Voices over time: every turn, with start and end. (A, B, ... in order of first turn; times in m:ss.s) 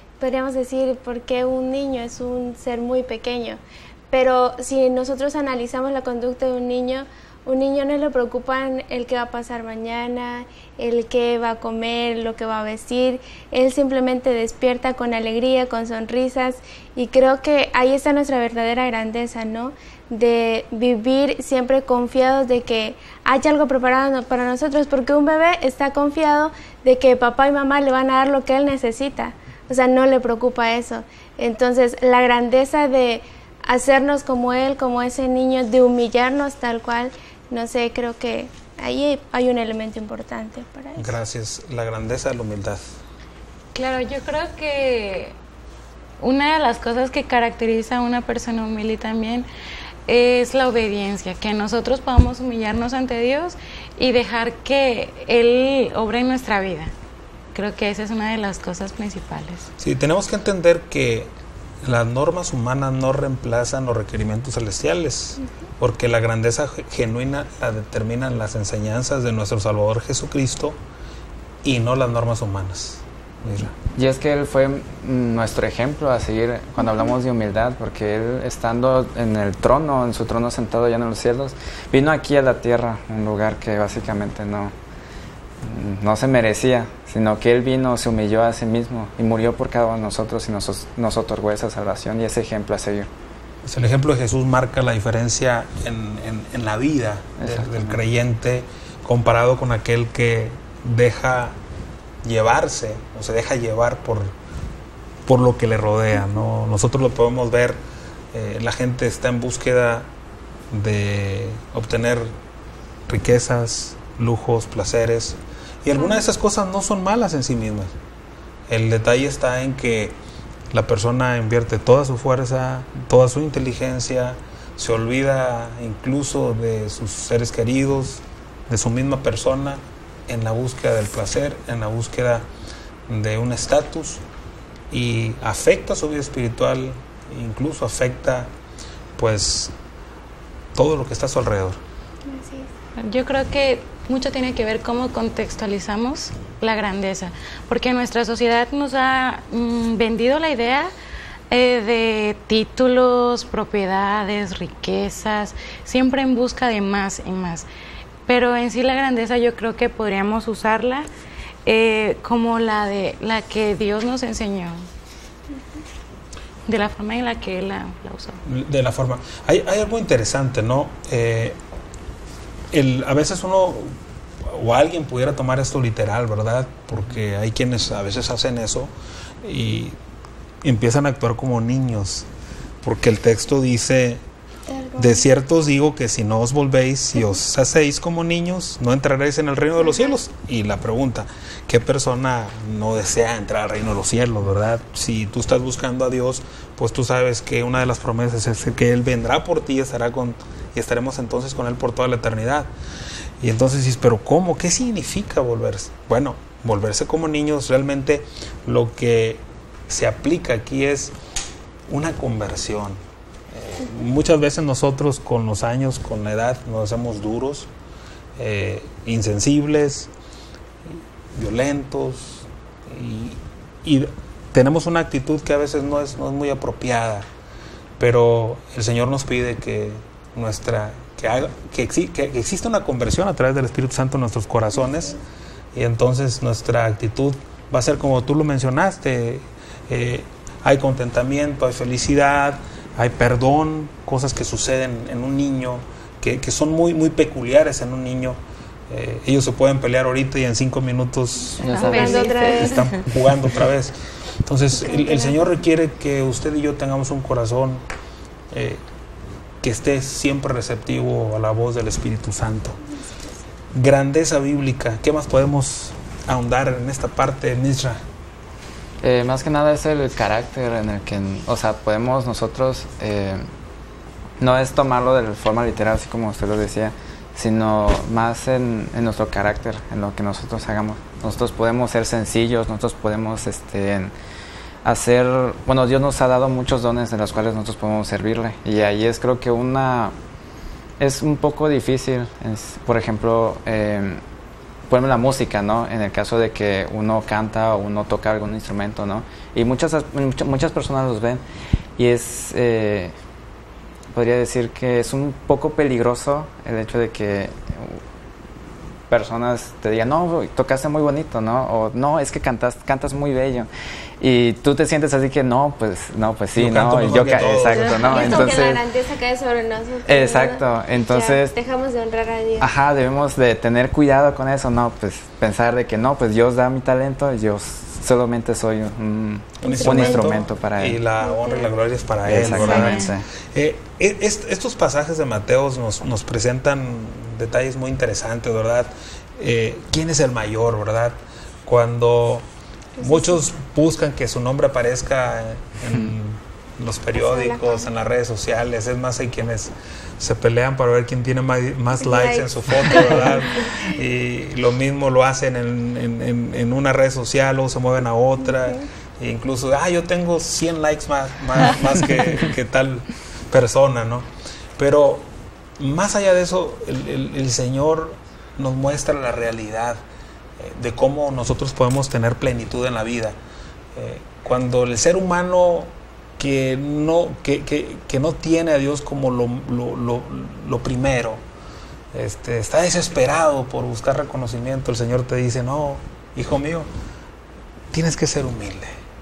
0:00.2-0:41.2 A
0:41.0-0:42.8 B
0:43.7-0:45.3 C
0:46.2-0:49.5 C
0:50.1-0:56.9 C
0:57.5-0:59.7 C
0:59.8-1:01.3 B
1:01.8-1:10.8 B
1:11.6-1:13.7 B
1:13.9-1:24.7 D
1:25.6-1:33.1 D
1:33.6-1:41.6 B
1:37.4-1:38.0 D
1:42.2-1:44.3 B
1:45.3-1:47.8 B
1:48.3-1:50.1 B
1:50.7-1:52.3 B
1:53.1-1:57.9 B
1:58.7-2:00.2 B
2:00.7-2:12.4 B
2:13.1-2:14.2 B
2:14.9-2:18.5 B
2:19.2-2:19.7 B
2:20.7-2:21.8 B
2:22.3-2:22.7 A
2:23.0-2:30.9 C
2:31.5-2:37.7 C
2:38.3-2:41.1 C
2:41.6-2:44.8 C
2:46.6-2:48.4 C
2:48.4-2:51.6 B
2:52.7-2:58.9 B
2:59.4-3:00.0 B
3:00.6-3:02.3 B
3:02.8-3:04.2 B
3:04.7-3:05.2 A
3:05.0-3:22.7 B
3:23.4-3:31.1 B
3:31.9-3:37.7 B
3:38.4-3:40.1 B
3:41.3-3:47.3 B
3:48.0-3:55.2 B
3:55.7-4:11.6 B
4:11.6-4:12.4 D
4:11.7-4:12.9 C
4:11.8-4:12.9 A
4:12.4-4:17.8 B
4:14.8-4:15.5 A
4:18.5-4:18.8 B
4:19.6-4:22.8 B
4:23.7-4:28.0 B
4:29.0-4:33.4 D
4:34.4-4:44.1 D
4:44.8-4:50.1 D
4:51.0-4:54.2 D
4:54.9-5:01.4 D
5:02.0-5:03.1 D
5:04.1-5:08.0 D
5:09.1-5:13.7 D
5:14.2-5:18.8 D
5:16.6-5:18.4 B
5:17.7-5:22.7 A
5:20.0-5:21.5 D
5:22.6-5:31.0 D
5:29.6-5:42.4 B
5:29.6-5:30.4 A
5:31.2-5:31.7 A
5:32.2-5:33.2 D
5:32.4-5:33.1 C
5:43.0-6:10.0 B
5:47.2-5:47.9 A
5:52.0-5:53.4 A
5:58.5-5:58.8 A
6:10.6-6:13.4 B
6:13.9-6:21.4 B
6:22.1-6:26.9 B
6:27.9-6:28.9 B